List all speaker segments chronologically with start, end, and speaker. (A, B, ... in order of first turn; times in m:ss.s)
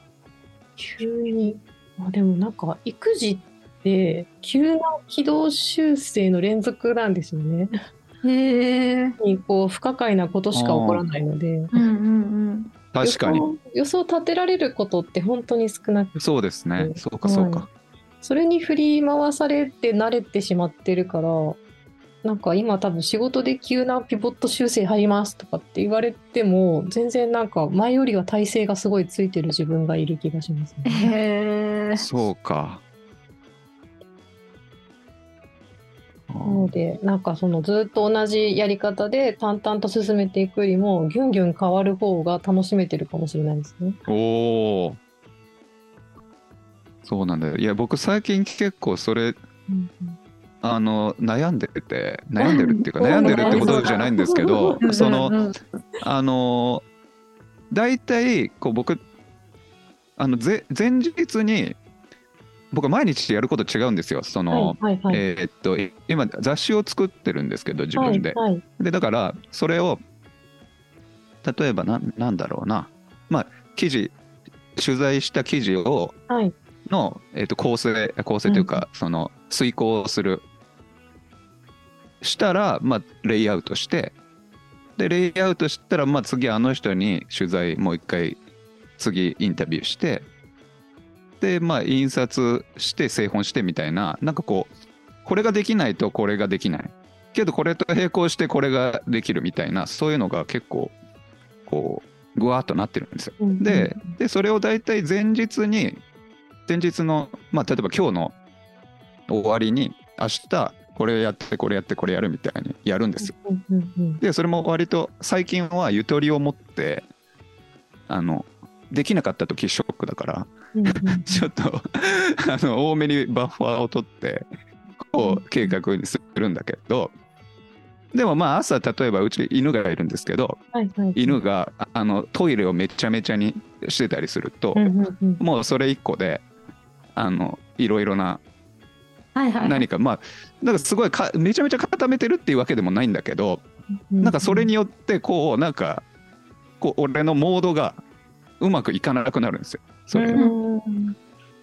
0:00.8-0:07.7 A
0:08.2-0:09.2 B
0:09.2-0:11.8 A
0:10.5-0:11.0 C
0:11.7-0:12.7 B
0:12.9-0:13.5 C
0:13.0-0:16.2 A
0:16.2-0:17.7 C
0:16.8-0:17.7 A
0:18.2-0:21.6 A
0:22.2-0:31.1 A
0:30.9-0:32.1 B
0:32.0-0:32.8 C
0:36.3-0:36.7 C
0:36.4-0:44.0 A
0:44.1-0:45.0 C
0:47.0-0:49.4 C
0:49.7-0:50.2 A
0:50.6-0:55.4 C
0:52.4-0:54.1 B
0:53.0-0:55.1 A
0:54.8-0:55.6 B
0:56.0-0:56.8 C
0:57.7-0:59.0 C
1:00.2-1:01.8 C
1:02.7-1:10.0 C
1:04.5-1:05.2 A
1:08.0-1:08.6 A
1:11.4-1:14.2 C
1:14.8-1:16.2 C
1:16.3-1:16.6 A
1:16.9-1:20.4 C
1:18.5-1:18.8 A
1:22.2-1:24.2 C
1:25.0-1:28.4 C
1:29.0-1:30.3 C
1:31.4-1:34.7 C
1:35.2-1:41.0 C
1:41.6-1:46.0 C
1:43.4-1:44.1 A
1:46.7-1:48.4 C
1:49.3-1:53.3 C
1:53.2-1:54.2 A
1:54.2-1:57.1 C
1:58.1-2:04.5 C
2:00.7-2:01.5 A
2:05.1-2:07.1 C
2:05.2-2:05.8 A
2:08.1-2:10.6 C
2:10.7-2:11.4 A
2:11.2-2:14.9 C
2:14.8-2:15.4 A
2:15.4-2:16.4 C
2:17.2-2:18.4 C
2:19.4-2:19.9 B
2:19.6-2:23.6 C
2:24.1-2:24.7 A
2:24.2-2:26.0 C
2:26.8-2:28.0 C
2:28.6-2:30.4 C
2:30.1-2:31.2 A